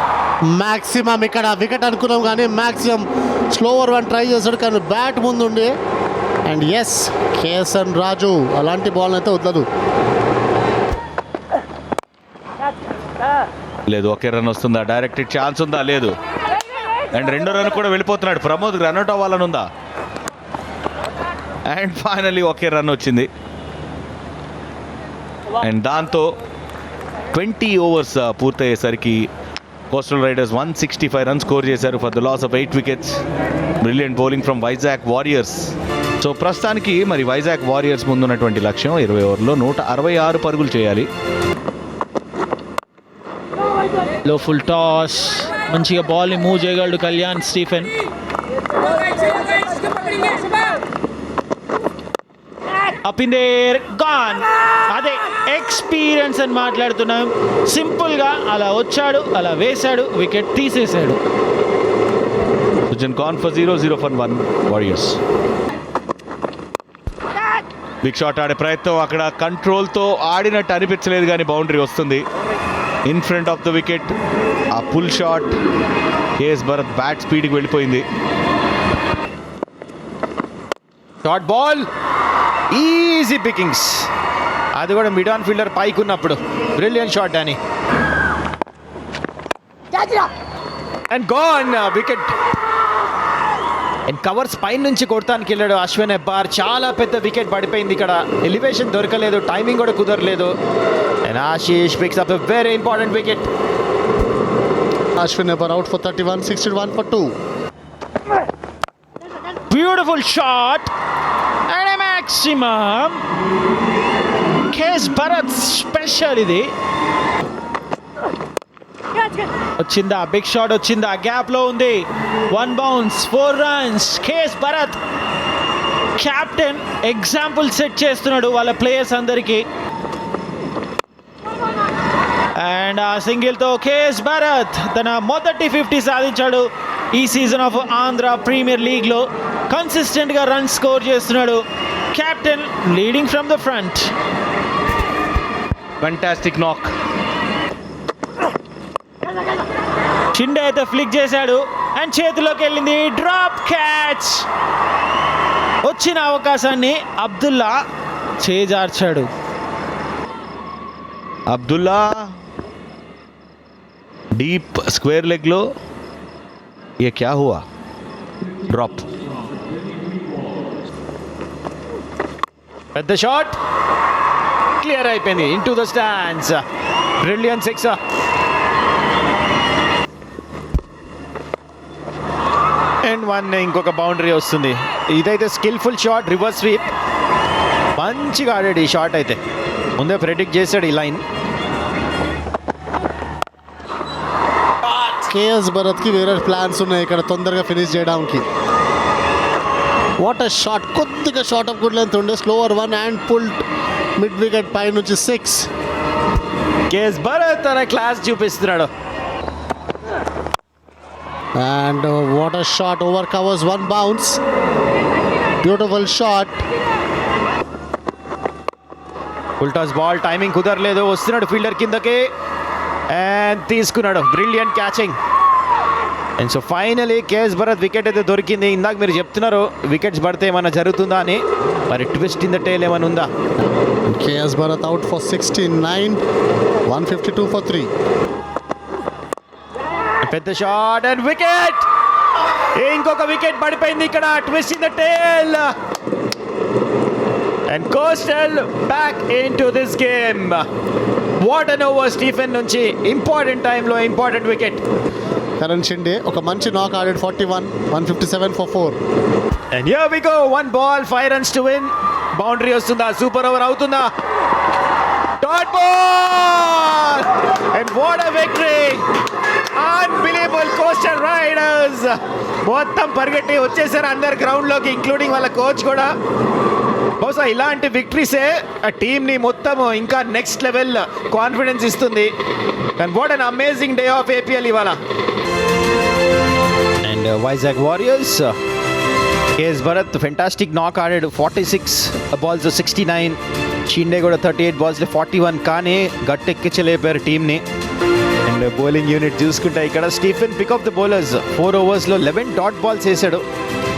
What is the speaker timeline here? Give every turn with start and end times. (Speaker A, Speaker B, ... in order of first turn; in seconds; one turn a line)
Speaker A: 0.5-5.7
Speaker A: 6.5-9.7
Speaker B: 13.9-16.1
Speaker B: 17.1-19.6
Speaker B: 21.7-23.3
Speaker B: 25.6-26.4
Speaker B: 27.3-29.2
Speaker B: 29.9-33.2
Speaker B: 33.8-41.1
Speaker C: 44.2-47.9
Speaker C: 53.0-61.2
Speaker B: 62.9-65.2
Speaker B: 68.0-72.2
Speaker B: 73.1-74.1
Speaker B: 74.7-75.5
Speaker B: 76.4-78.0
Speaker D: 81.2-81.9
Speaker D: 82.7-84.1
Speaker D: 84.8-87.6
Speaker D: 91.1-92.3
Speaker D: 94.1-100.5
Speaker D: 101.2-103.5
Speaker A: 105.2-107.3
Speaker C: 109.7-110.9
Speaker C: 111.7-113.2
Speaker C: 114.7-116.7
Speaker C: 119.8-125.0
Speaker C: 126.2-129.6
Speaker C: 132.6-144.1
Speaker B: 146.0-146.9
Speaker C: 150.3-154.4
Speaker C: 155.8-157.8
Speaker C: 158.4-159.3
Speaker B: 161.5-162.3
Speaker B: 164.3-165.7
Speaker B: 167.0-167.6
Speaker B: 168.7-169.0
Speaker D: 172.9-173.6
Speaker D: 174.8-176.6
Speaker D: 177.2-178.0
Speaker D: 183.0-186.8
Speaker D: 187.9-189.4
Speaker D: 190.0-191.2
Speaker A: 195.1-198.4
Speaker A: 200.2-203.6
Speaker A: 204.2-205.7
Speaker D: 206.9-208.9
Speaker A: 211.6-214.4
Speaker A: 215.6-216.6
Speaker D: 219.6-222.3
Speaker D: 223.1-225.2
Speaker D: 226.4-233.3
Speaker A: 234.1-236.2
Speaker A: 236.9-237.9
Speaker D: 240.2-241.9
Speaker D: 242.7-245.7
Speaker D: 247.7-250.6
Speaker D: 251.4-254.8
Speaker A: 255.6-259.0
Speaker D: 259.7-264.1
Speaker D: 265.4-269.0
Speaker D: 269.7-276.1
Speaker D: 277.2-282.3
Speaker D: 283.0-285.0
Speaker D: 287.0-288.6
Speaker D: 289.6-297.6
Speaker D: 298.4-303.4